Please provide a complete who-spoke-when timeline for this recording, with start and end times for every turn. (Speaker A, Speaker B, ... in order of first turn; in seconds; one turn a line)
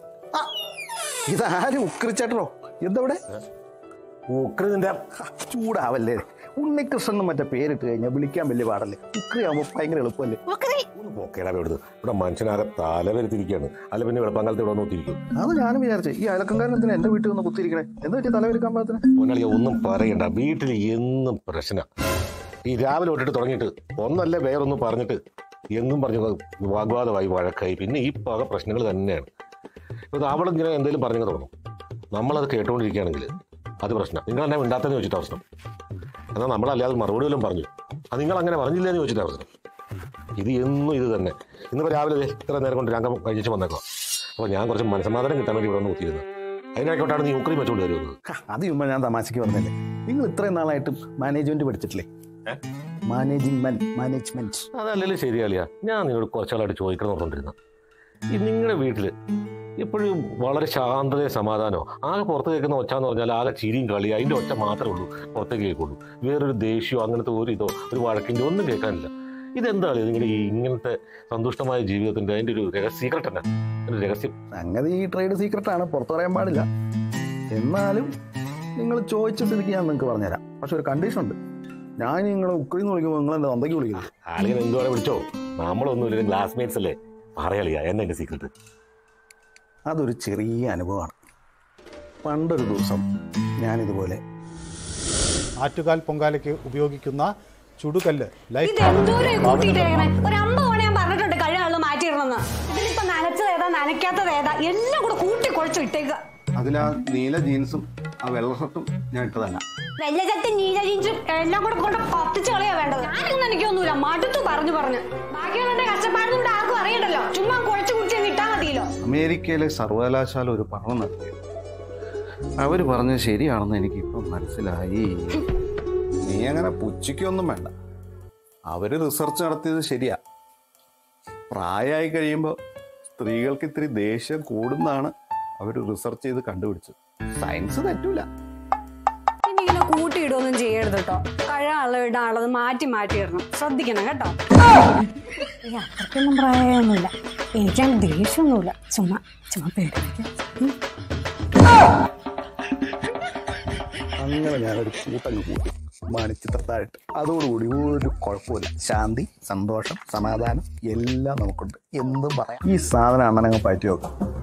Speaker A: 1.3-3.2
Speaker B: 4.3-5.0
Speaker A: 5.2-10.4
Speaker C: 10.5-10.8
Speaker B: 10.9-15.2
Speaker A: 15.4-19.0
Speaker B: 19.1-21.9
Speaker B: 22.7-25.2
Speaker B: 25.7-29.3
Speaker B: 30.1-31.5
Speaker B: 32.1-33.3
Speaker B: 33.8-35.4
Speaker B: 36.3-39.5
Speaker B: 40.4-43.8
Speaker B: 44.4-46.2
Speaker B: 46.8-48.2
Speaker A: 48.3-52.1
Speaker A: 53.1-54.7
Speaker B: 54.7-57.5
Speaker B: 58.4-59.1
Speaker B: 59.8-74.3
Speaker A: 74.6-76.7
Speaker A: 77.5-78.1
Speaker A: 78.8-81.4
Speaker A: 82.0-84.1
Speaker B: 84.0-88.5
Speaker A: 89.9-91.2
Speaker A: 92.2-93.0
Speaker A: 93.6-94.2
Speaker D: 95.6-100.3
Speaker C: 98.7-106.2
Speaker A: 106.6-109.6
Speaker C: 110.0-118.9
Speaker A: 119.0-121.3
Speaker A: 122.6-125.5
Speaker A: 126.2-127.7
Speaker A: 128.7-130.2
Speaker A: 131.5-132.6
Speaker A: 133.1-138.3
Speaker C: 139.5-150.8
Speaker A: 154.2-164.1